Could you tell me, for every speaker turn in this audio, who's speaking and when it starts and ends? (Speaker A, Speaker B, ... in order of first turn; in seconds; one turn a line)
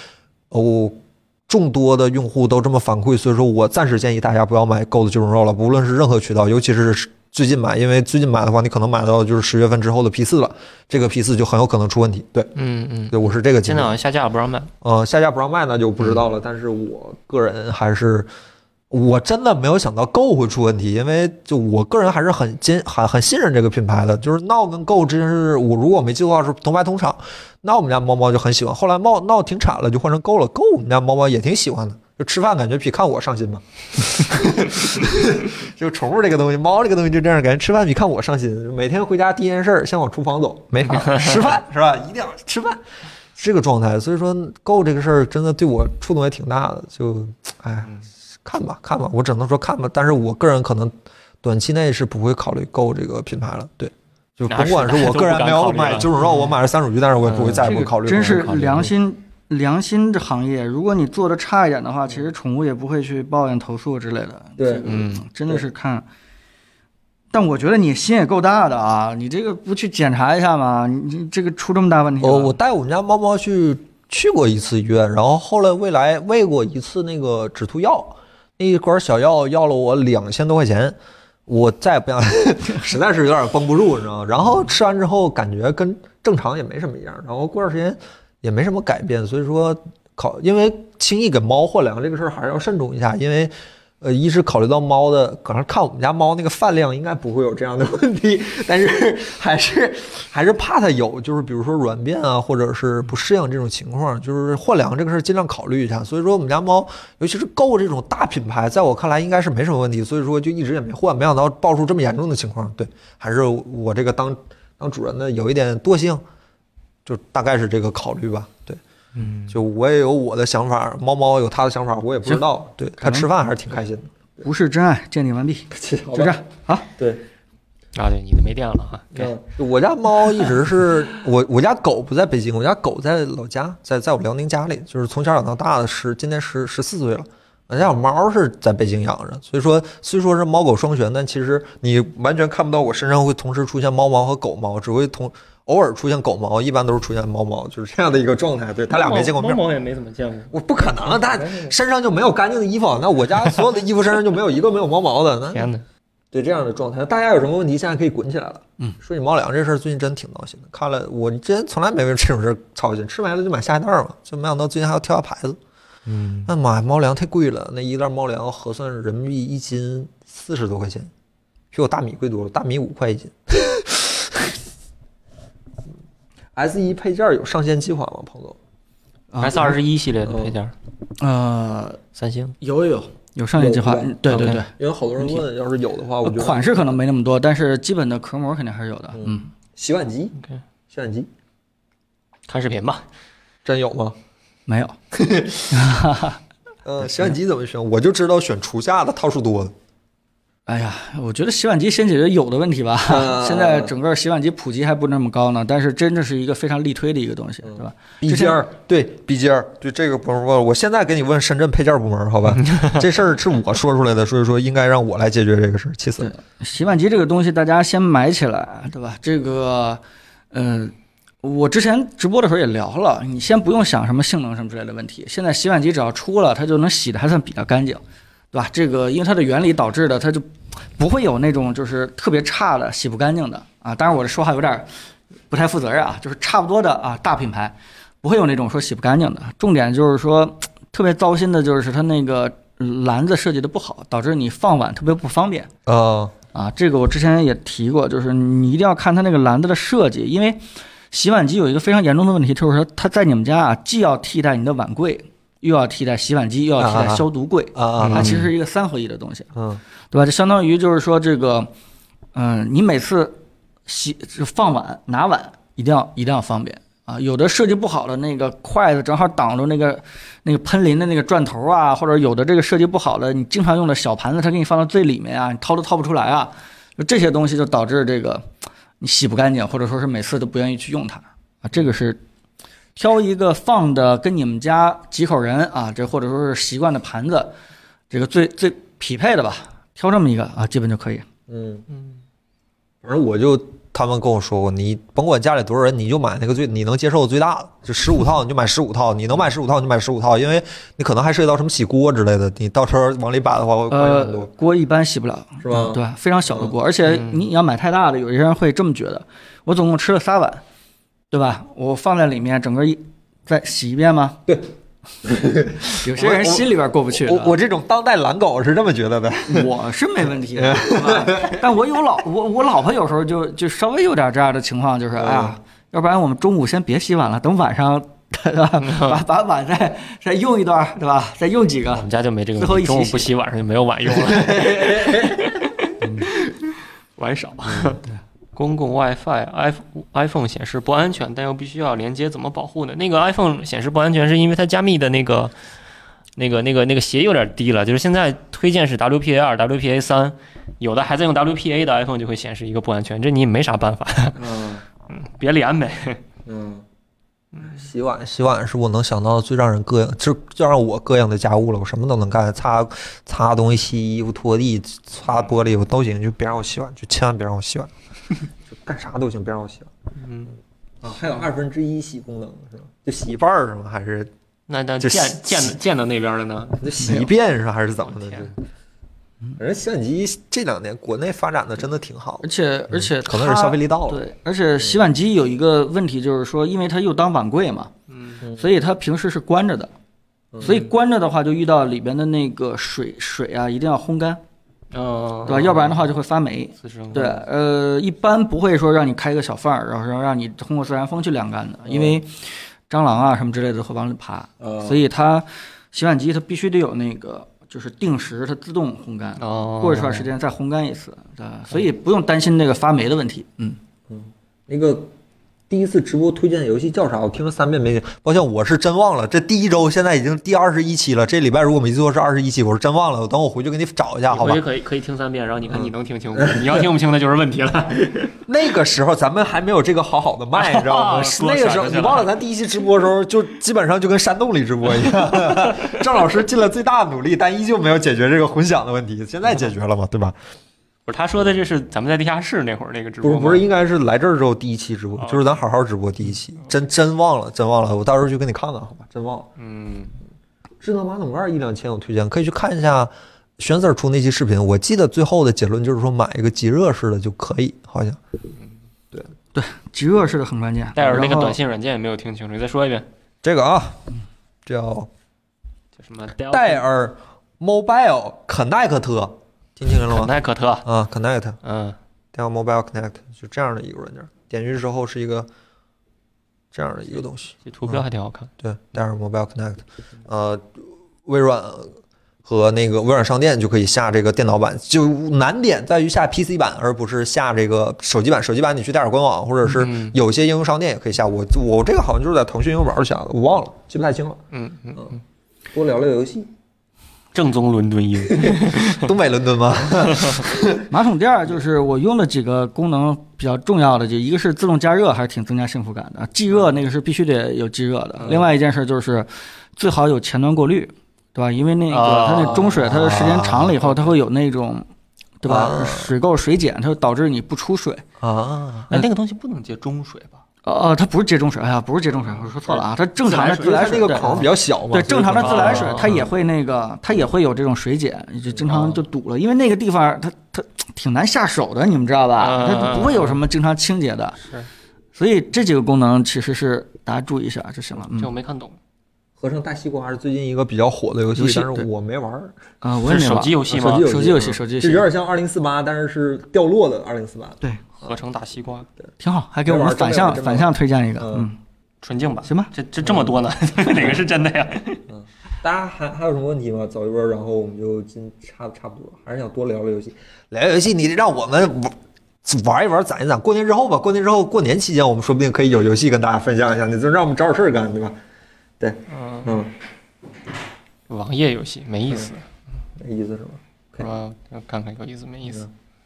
Speaker A: 0.5-12.5
Speaker B: 12.5-14.7
Speaker A: 13.1-13.9
Speaker A: 14.8-18.3
Speaker A: 18.9-42.8
Speaker B: 40.9-41.4
Speaker A: 43.4-58.9
Speaker B: 54.5-56.1
Speaker B: 57.2-58.9
Speaker C: 57.7-66.0
Speaker A: 64.6-64.9
Speaker B: 64.9-65.2
Speaker C: 67.3-72.6
Speaker A: 72.2-116.2
Speaker A: 117.0-118.8
Speaker B: 119.2-119.6
Speaker A: 119.5-124.1
Speaker C: 123.0-123.3
Speaker C: 124.4-126.9
Speaker A: 125.7-126.4
Speaker A: 127.0-127.2
Speaker B: 127.9-129.3
Speaker A: 129.1-149.6
Speaker B: 148.9-151.7
Speaker A: 150.5-155.7
Speaker B: 155.5-155.8
Speaker A: 156.3-165.6
Speaker B: 166.1-166.5
Speaker A: 166.4-171.1
Speaker A: 171.7-174.6
Speaker A: 176.6-178.6
Speaker C: 179.3-179.8
Speaker B: 179.4-180.7
Speaker A: 180.2-180.5
Speaker C: 181.2-182.0
Speaker B: 182.2-182.6
Speaker C: 182.6-185.4
Speaker A: 183.5-186.8
Speaker B: 184.3-184.6
Speaker C: 186.2-189.5
Speaker A: 189.2-190.4
Speaker A: 190.9-191.3
Speaker B: 192.5-193.0
Speaker A: 193.6-194.2
Speaker C: 194.7-195.0
Speaker A: 195.1-195.8
Speaker C: 195.7-196.4
Speaker A: 196.8-199.7
Speaker C: 200.7-208.6
Speaker A: 203.1-203.9
Speaker A: 208.2-216.3
Speaker C: 216.2-234.9
Speaker C: 235.5-245.7
Speaker A: 245.8-246.4
Speaker C: 246.5-259.5
Speaker A: 256.8-258.5
Speaker B: 258.0-258.4
Speaker A: 259.6-259.8
Speaker C: 260.1-261.7
Speaker C: 262.3-278.5
Speaker C: 279.0-282.2
Speaker C: 282.9-287.5
Speaker C: 288.1-291.3
Speaker A: 291.5-291.8
Speaker B: 291.9-292.1
Speaker A: 293.0-304.5
Speaker C: 303.9-310.6
Speaker A: 305.6-306.7
Speaker B: 307.0-307.4
Speaker C: 311.3-314.4
Speaker A: 315.2-319.7
Speaker C: 315.9-317.5
Speaker C: 319.5-333.3
Speaker A: 320.5-321.6
Speaker A: 325.2-325.6
Speaker B: 328.8-329.2
Speaker B: 331.9-336.6
Speaker B: 337.2-338.0
Speaker B: 338.5-345.5
Speaker B: 346.4-354.6
Speaker A: 354.4-354.8
Speaker B: 355.1-356.2
Speaker A: 356.4-356.8
Speaker A: 357.6-367.9
Speaker A: 368.7-369.9
Speaker B: 370.1-370.6
Speaker A: 371.0-374.3
Speaker B: 374.7-376.8
Speaker A: 375.0-375.7
Speaker A: 376.8-378.6
Speaker C: 377.0-377.3
Speaker B: 378.1-378.5
Speaker A: 379.6-384.2
Speaker C: 382.4-387.9
Speaker B: 388.1-388.4
Speaker A: 388.4-388.7
Speaker C: 388.5-389.9
Speaker A: 390.5-390.8
Speaker C: 390.6-394.4
Speaker B: 390.6-390.9
Speaker B: 394.9-396.0
Speaker C: 395.4-413.8
Speaker B: 396.8-397.4
Speaker A: 401.9-402.2
Speaker A: 404.6-405.0
Speaker B: 409.4-410.3
Speaker A: 414.1-415.1
Speaker A: 415.7-424.6
Speaker B: 424.3-428.4
Speaker A: 425.7-426.8
Speaker A: 428.4-440.4
Speaker B: 430.5-432.3
Speaker B: 435.6-435.9
Speaker B: 441.1-443.6
Speaker A: 443.2-449.5
Speaker B: 445.2-445.6
Speaker B: 449.6-450.1
Speaker A: 450.8-458.2
Speaker C: 459.5-461.6
Speaker B: 460.9-463.1
Speaker A: 463.4-464.1
Speaker A: 464.6-465.1
Speaker B: 466.0-466.8
Speaker A: 466.5-470.3
Speaker B: 470.1-470.9
Speaker A: 470.8-471.6
Speaker B: 471.6-472.0
Speaker A: 472.3-475.5
Speaker A: 476.7-478.0
Speaker B: 477.6-478.5
Speaker A: 478.6-481.9
Speaker A: 482.4-494.4
Speaker B: 489.6-490.2
Speaker B: 494.5-495.2
Speaker A: 495.7-496.5
Speaker B: 497.3-499.1
Speaker A: 498.3-500.9
Speaker B: 500.0-500.4
Speaker C: 500.9-514.9
Speaker B: 508.1-508.5
Speaker B: 511.9-512.9
Speaker A: 512.8-513.8
Speaker B: 513.8-514.1
Speaker C: 515.4-518.0
Speaker A: 515.4-516.1
Speaker A: 518.2-519.0
Speaker B: 518.9-520.4
Speaker C: 520.6-534.4
Speaker B: 522.6-524.2
Speaker A: 523.5-526.2
Speaker B: 525.4-526.2
Speaker A: 528.6-529.0
Speaker B: 532.4-533.4
Speaker C: 535.1-538.3
Speaker B: 538.1-538.8
Speaker A: 539.4-542.5
Speaker C: 541.4-541.9
Speaker C: 542.8-545.1
Speaker B: 543.0-544.1
Speaker A: 543.7-548.1
Speaker B: 548.0-548.9
Speaker C: 549.2-551.6
Speaker A: 549.6-551.5
Speaker B: 552.0-555.0
Speaker C: 552.4-552.7
Speaker A: 553.0-553.3
Speaker A: 555.1-568.2
Speaker A: 568.8-569.7
Speaker B: 569.1-569.6
Speaker B: 571.1-572.5
Speaker A: 573.0-574.0
Speaker B: 574.0-575.6